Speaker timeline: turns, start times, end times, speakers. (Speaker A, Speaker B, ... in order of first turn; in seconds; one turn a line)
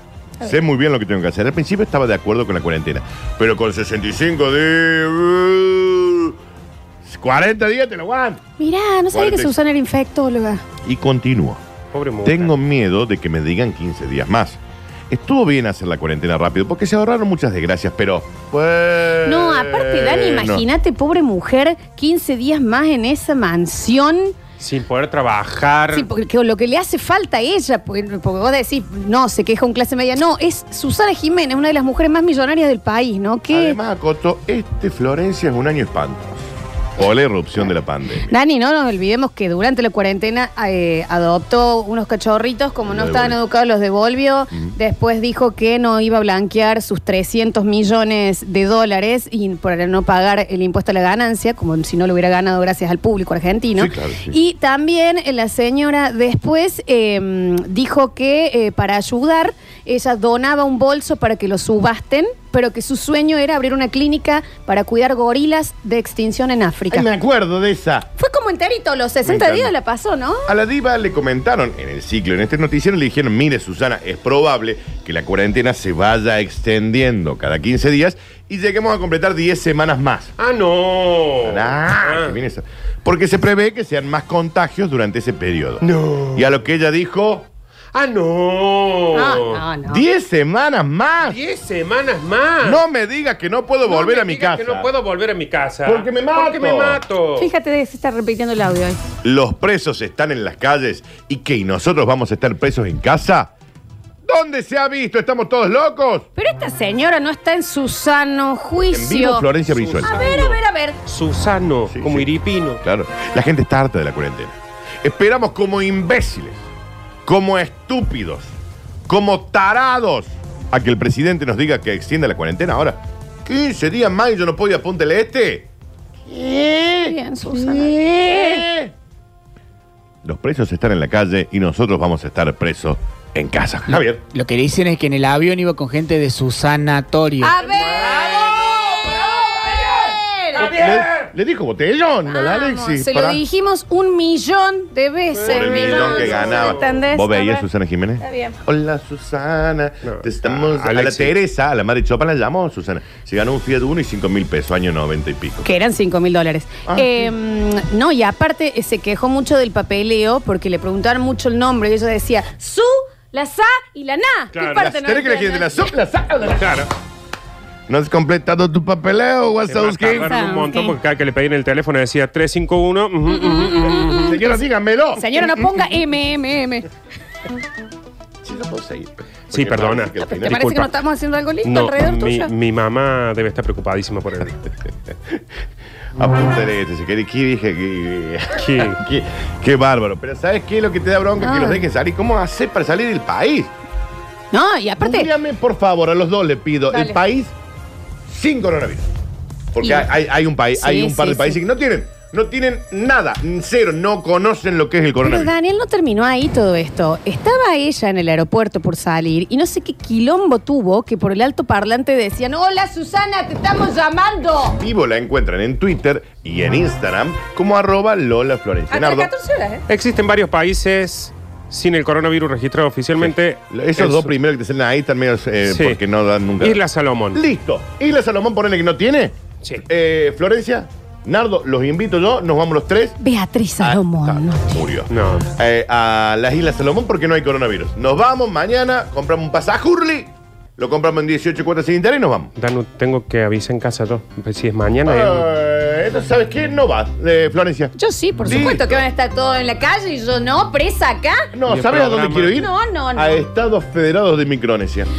Speaker A: 0.4-6.4
Speaker A: 7.0-8.4
Speaker B: 8.6-10.6
Speaker A: 9.1-9.6
Speaker A: 10.8-11.6
Speaker C: 11.9-12.5
Speaker A: 12.2-14.6
Speaker A: 15.1-20.6
Speaker B: 19.2-24.3
Speaker C: 24.6-26.1
Speaker B: 25.9-33.8
Speaker A: 33.5-38.3
Speaker B: 38.3-67.1
Speaker A: 42.9-43.4
Speaker A: 53.8-54.4
Speaker A: 66.9-68.1
Speaker B: 68.1-70.5
Speaker A: 69.2-69.7
Speaker A: 70.5-80.3
Speaker C: 80.4-82.4
Speaker A: 81.4-87.5
Speaker C: 85.8-86.5
Speaker C: 87.9-89.6
Speaker B: 89.1-90.0
Speaker A: 89.9-91.4
Speaker C: 91.3-92.8
Speaker A: 92.6-94.9
Speaker C: 93.8-97.5
Speaker A: 95.8-97.0
Speaker B: 97.4-99.0
Speaker A: 99.2-103.5
Speaker A: 104.2-106.3
Speaker B: 106.3-111.0
Speaker A: 108.9-110.1
Speaker C: 109.7-112.8
Speaker A: 111.9-112.3
Speaker A: 112.8-116.6
Speaker A: 117.2-118.5
Speaker A: 119.1-125.7
Speaker A: 126.3-128.9
Speaker B: 127.0-128.7
Speaker A: 130.2-134.2
Speaker D: 133.9-137.5
Speaker B: 137.4-140.9
Speaker C: 140.6-141.1
Speaker A: 140.6-143.4
Speaker B: 142.3-147.7
Speaker C: 145.4-146.9
Speaker A: 145.4-155.7
Speaker B: 148.2-148.6
Speaker C: 150.0-151.3
Speaker B: 155.6-165.9
Speaker A: 156.8-157.3
Speaker A: 164.6-166.9
Speaker C: 166.6-166.9
Speaker A: 167.9-170.4
Speaker C: 169.7-174.2
Speaker B: 170.1-170.9
Speaker B: 173.3-174.4
Speaker A: 174.1-175.3
Speaker B: 175.2-176.9
Speaker A: 178.4-180.7
Speaker C: 179.5-180.9
Speaker B: 180.2-182.5
Speaker C: 181.6-184.6
Speaker A: 185.1-185.4
Speaker A: 186.2-193.7
Speaker C: 188.5-189.0
Speaker B: 191.4-191.8
Speaker B: 194.5-195.3
Speaker A: 195.0-197.5
Speaker B: 196.9-197.2
Speaker A: 198.3-199.1
Speaker A: 199.7-205.5
Speaker B: 199.8-200.1
Speaker B: 200.8-201.6
Speaker B: 205.2-214.8
Speaker A: 214.6-219.3
Speaker B: 218.9-219.8
Speaker C: 219.9-224.3
Speaker A: 223.2-226.8
Speaker C: 225.7-226.0
Speaker C: 226.6-227.4
Speaker A: 227.3-233.2
Speaker B: 233.2-234.8
Speaker A: 233.8-242.5
Speaker C: 235.1-235.5
Speaker C: 242.6-245.5
Speaker A: 245.0-247.9
Speaker B: 247.9-251.5
Speaker A: 248.4-249.0
Speaker A: 251.5-255.1
Speaker C: 251.7-252.6
Speaker B: 252.5-253.4